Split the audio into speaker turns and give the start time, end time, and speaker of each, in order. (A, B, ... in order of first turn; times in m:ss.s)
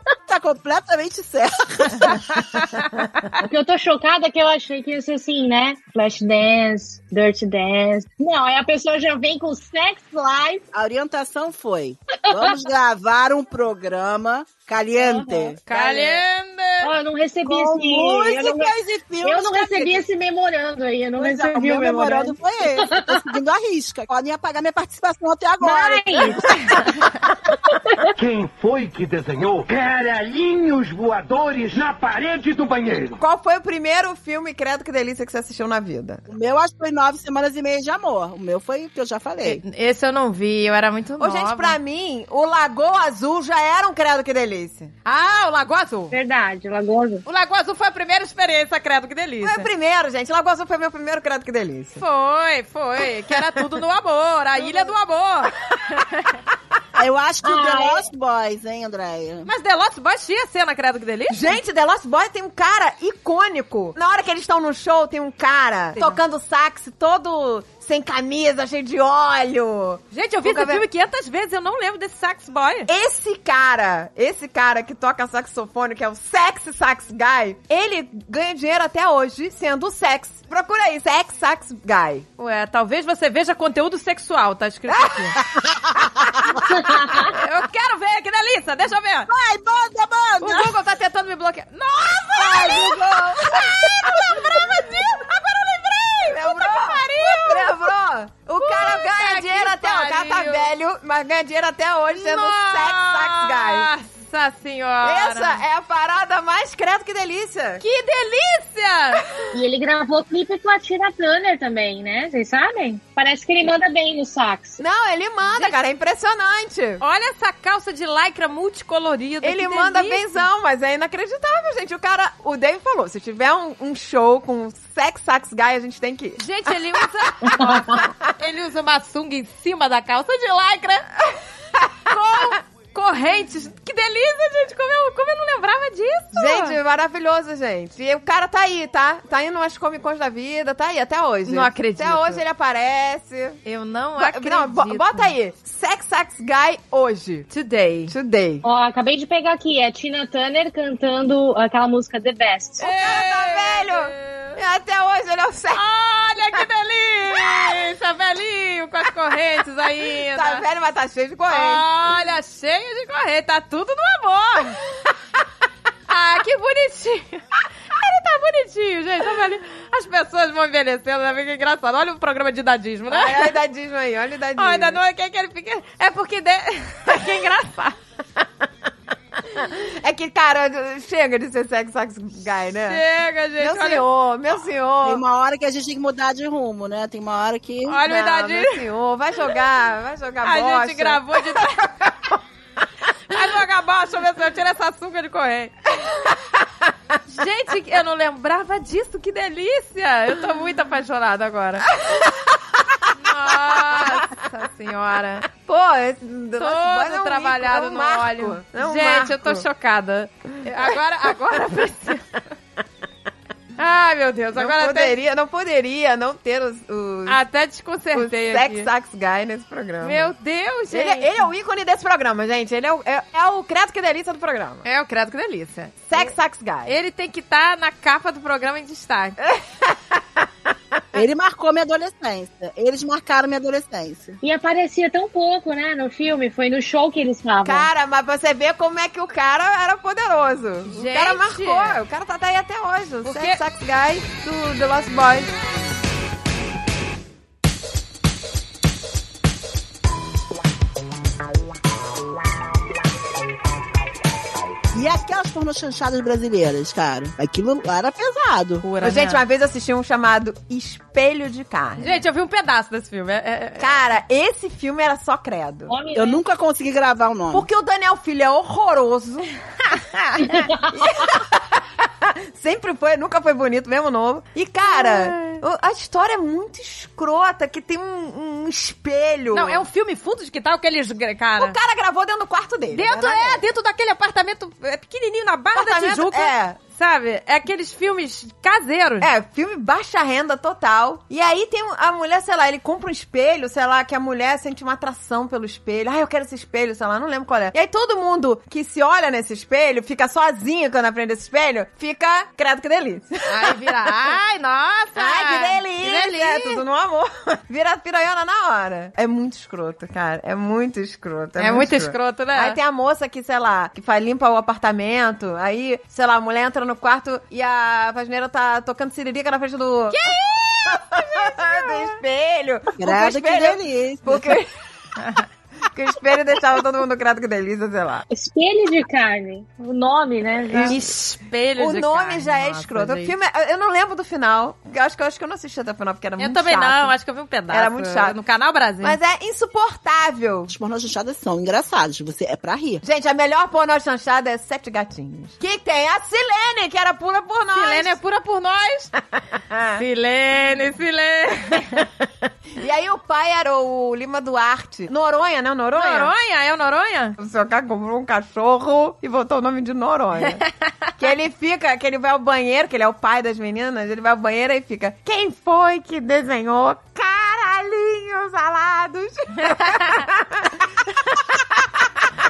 0:00.3-0:02.4 A
0:02.3-0:02.9 B
0:03.4-0:10.6 C
0:10.7-0:16.2 A
0:12.3-0:12.5 C
0:15.0-0:15.6 C
0:15.6-0:16.9 B
0:16.8-0:23.2 C
0:17.4-0:20.0 A
0:21.2-0:26.8 A
0:25.6-0:26.6 C
0:27.6-0:28.1 C
0:28.2-0:33.2 D
0:33.2-0:36.2 E
0:36.3-0:39.6 A
0:39.4-0:41.8 B
0:41.2-0:44.9 E
0:45.0-0:46.1 B
0:46.1-0:47.2 C
0:47.2-0:49.7 B
0:49.4-0:52.0 E
0:52.0-0:56.4 B
0:54.6-0:54.9 E
0:56.9-0:59.5 A
0:57.4-0:58.0 C
0:59.4-1:01.6 B
1:01.3-1:10.8 E
1:10.1-1:12.9 B
1:12.9-1:22.2 E
1:22.4-1:25.4 B
1:25.4-1:26.6 A
1:26.6-1:27.3 C
1:27.3-1:29.3 B
1:29.3-1:30.8 A
1:30.4-1:37.7 B
1:32.3-1:34.4 A
1:32.6-1:33.0 E
1:33.6-1:34.4 E
1:36.3-1:43.9 E
1:38.6-1:40.7 B
1:42.1-1:45.6 B
1:45.0-1:47.8 E
1:47.8-1:49.3 B
1:49.5-1:54.8 C
1:54.8-1:57.0 E
1:55.5-1:55.8 B
1:57.0-2:00.4 B
1:59.4-2:07.5 E
2:06.4-2:11.1 B
2:07.5-2:07.7 C
2:12.1-2:16.8 B
2:16.3-2:23.6 E
2:21.4-2:22.4 B
2:23.6-2:25.3 B
2:24.2-2:27.5 E
2:27.5-2:28.1 B
2:28.1-2:28.6 E
2:28.6-2:32.9 C
2:32.8-2:34.6 B
2:33.0-2:35.8 E
2:35.7-2:40.6 B
2:37.4-2:37.8 E
2:40.3-2:41.8 E
2:41.5-2:44.8 B
2:46.1-2:53.5 B
2:53.1-2:55.0 E
2:54.6-2:58.0 B
2:59.5-3:03.0 E
3:02.8-3:04.0 B
3:03.6-3:05.2 E
3:05.0-3:08.0 A
3:07.9-3:08.8 B
3:08.0-3:12.3 E
3:10.4-3:11.9 B
3:13.3-3:15.7 B
3:17.3-3:21.9 B
3:22.0-3:22.9 E
3:23.1-3:25.5 B
3:23.8-3:24.1 E
3:25.5-3:29.6 E
3:26.6-3:32.4 B
3:33.8-3:35.1 B
3:34.6-3:37.4 E
3:37.3-3:38.9 B
3:38.1-3:40.3 E
3:40.0-3:41.3 B
3:40.9-3:44.8 E
3:44.8-3:46.3 B
3:46.1-3:46.9 E
3:46.8-3:49.4 B
3:49.4-3:50.2 E
3:51.1-3:54.4 A
3:54.4-3:57.9 C
3:57.6-4:05.5 E
4:00.9-4:02.0 B
4:03.2-4:03.6 B
4:14.9-4:18.8 A
4:18.8-4:19.4 B
4:19.0-4:22.2 E
4:22.0-4:24.0 B
4:23.8-4:25.9 E
4:25.9-4:26.4 C
4:26.1-4:27.7 A
4:27.5-4:29.5 E
4:29.9-4:30.7 B
4:30.9-4:39.8 E
4:34.8-4:35.6 B
4:39.5-4:41.8 B
4:41.6-4:43.6 E
4:42.9-4:49.3 B
4:45.7-4:46.8 E
4:49.2-5:04.3 E
5:03.4-5:06.8 B
5:05.2-5:20.4 E
5:11.6-5:12.8 B
5:20.1-5:22.2 B
5:20.9-5:24.7 E
5:23.0-5:24.5 A
5:25.2-5:25.4 B
5:25.9-5:28.2 E
5:28.3-5:31.0 C
5:30.7-5:31.0 E
5:30.9-5:33.3 B
5:31.8-5:37.1 E
5:36.4-5:39.2 B
5:37.7-5:38.4 E
5:39.0-5:40.7 E
5:40.7-5:43.0 A
5:43.0-5:48.2 E
5:47.7-5:49.1 B
5:49.7-5:50.0 E
5:50.0-5:52.0 B
5:52.8-5:56.3 E
5:55.9-5:57.4 B
5:57.4-6:00.6 E
6:00.4-6:00.9 B
6:01.2-6:12.3 E
6:09.6-6:10.3 B